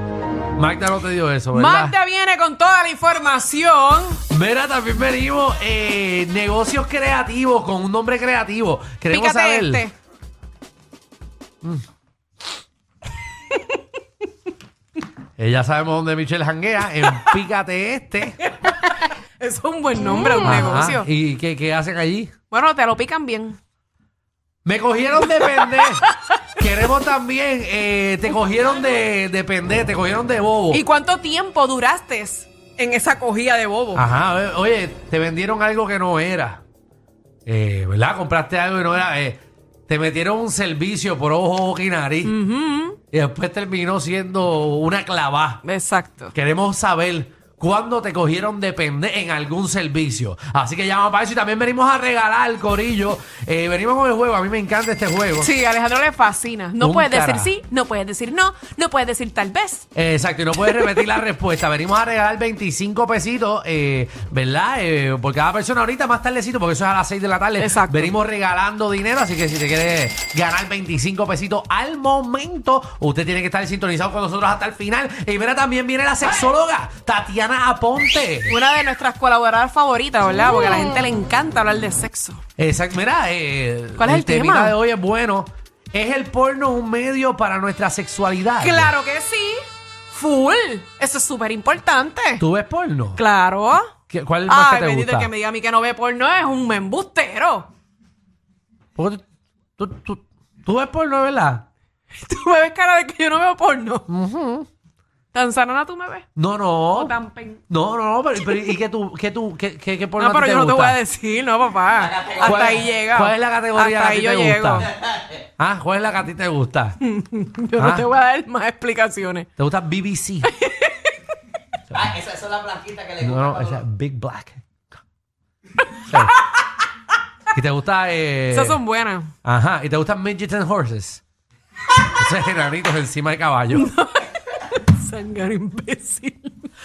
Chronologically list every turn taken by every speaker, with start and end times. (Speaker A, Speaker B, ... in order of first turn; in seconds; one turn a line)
Speaker A: 0.5-1.9
Speaker B: 1.5-4.2
Speaker A: 4.3-9.8
Speaker B: 9.1-9.9
Speaker B: 13.5-13.8
Speaker A: 15.4-18.4
Speaker B: 18.5-21.1
Speaker A: 20.3-22.3
Speaker B: 22.5-23.6
Speaker A: 24.6-26.0
Speaker B: 25.4-26.3
Speaker A: 26.6-30.8
Speaker B: 30.7-34.0
Speaker A: 33.9-36.6
Speaker A: 37.5-42.3
Speaker B: 42.2-43.0
Speaker A: 43.1-45.6
Speaker B: 45.6-46.3
Speaker A: 46.3-55.5
Speaker B: 55.4-59.9
Speaker A: 56.8-57.5
Speaker A: 59.9-78.6
Speaker B: 67.6-68.1
Speaker B: 78.5-82.4
Speaker A: 82.6-88.9
Speaker B: 84.0-84.8
Speaker B: 88.6-89.6
Speaker B: 90.1-92.4
Speaker A: 92.4-93.2
Speaker B: 93.2-93.9
Speaker A: 94.1-95.3
Speaker B: 94.5-97.7
Speaker A: 99.0-99.2
Speaker A: 99.8-101.7
Speaker B: 102.1-104.0
Speaker A: 104.1-104.7
Speaker B: 105.3-106.2
Speaker A: 106.3-107.2
Speaker B: 106.9-107.6
Speaker A: 107.7-111.0
Speaker B: 108.4-108.7
Speaker B: 110.2-114.9
Speaker C: 112.1-112.7
Speaker A: 112.4-114.9
Speaker A: 115.6-117.0
Speaker B: 117.0-119.5
Speaker A: 117.8-118.1
Speaker A: 119.6-120.5
Speaker B: 120.4-121.1
Speaker C: 122.0-123.8
Speaker A: 123.2-124.6
Speaker A: 126.1-126.3
Speaker A: 127.5-128.8
Speaker B: 128.5-129.3
Speaker A: 129.4-131.2
Speaker A: 132.2-133.9
Speaker B: 133.7-136.5